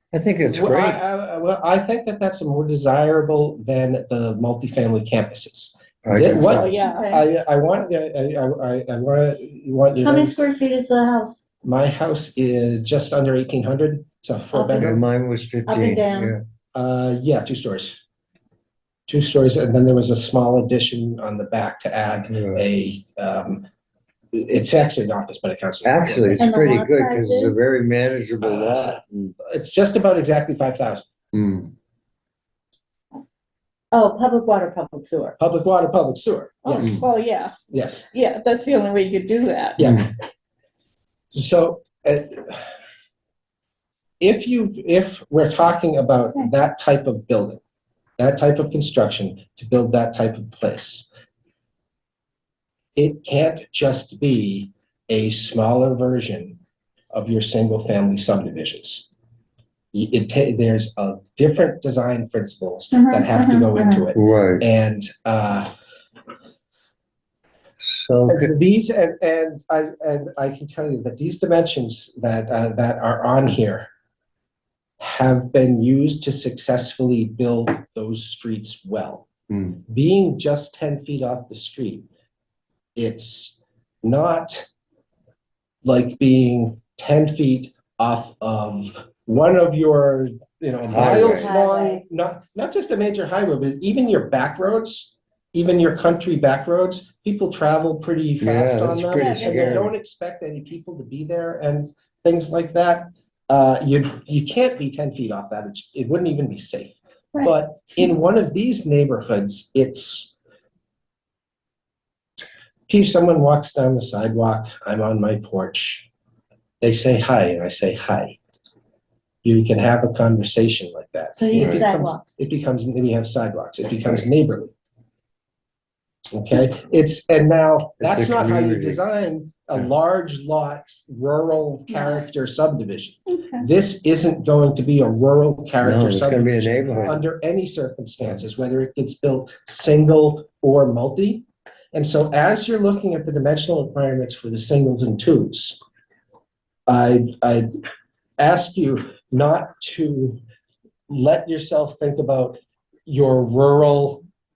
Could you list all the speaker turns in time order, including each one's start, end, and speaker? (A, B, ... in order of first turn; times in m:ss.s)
0:00.1-0:01.0 A
0:00.5-0:10.3 B
0:06.0-0:06.7 A
0:06.4-0:07.2 C
0:06.8-0:07.2 D
0:10.0-0:11.4 D
0:11.6-0:15.0 B
0:14.5-0:15.0 D
0:14.8-0:16.4 A
0:15.7-0:16.4 D
0:16.8-0:18.0 B
0:19.1-0:23.6 B
0:22.3-0:22.6 A
0:24.3-0:26.5 B
0:25.8-0:29.4 A
0:26.4-0:27.6 D
0:28.4-0:31.1 B
0:31.3-0:31.7 A
0:33.9-0:35.4 D
0:35.4-0:37.0 B
0:36.6-0:37.5 C
0:36.8-0:37.0 A
0:37.7-0:38.0 B
0:38.1-0:39.8 C
0:39.8-0:40.1 B
0:39.8-0:40.1 A
0:41.3-0:42.6 B
0:44.2-0:47.6 B
0:48.2-0:51.1 B
0:53.0-0:56.6 B
0:57.1-0:59.1 B
0:59.9-1:05.7 B
1:02.9-1:04.1 D
1:04.2-1:04.6 A
1:07.8-1:08.5 A
1:08.3-1:13.9 B
1:15.0-1:22.1 B
1:23.0-1:24.7 B
1:25.8-1:50.3 B
1:30.9-1:31.5 A
1:31.2-1:32.0 D
1:38.4-1:39.9 A
1:39.1-1:39.8 D
1:52.9-1:56.1 B
1:56.8-1:58.4 B
1:59.4-2:04.7 B
2:01.4-2:02.3 D
2:01.6-2:01.9 A
2:06.3-2:25.8 B
2:08.0-2:09.0 A
2:11.9-2:12.3 D
2:13.3-2:13.6 C
2:15.8-2:17.2 A
2:26.9-2:27.7 B
2:28.4-2:30.4 B
2:31.1-2:34.2 B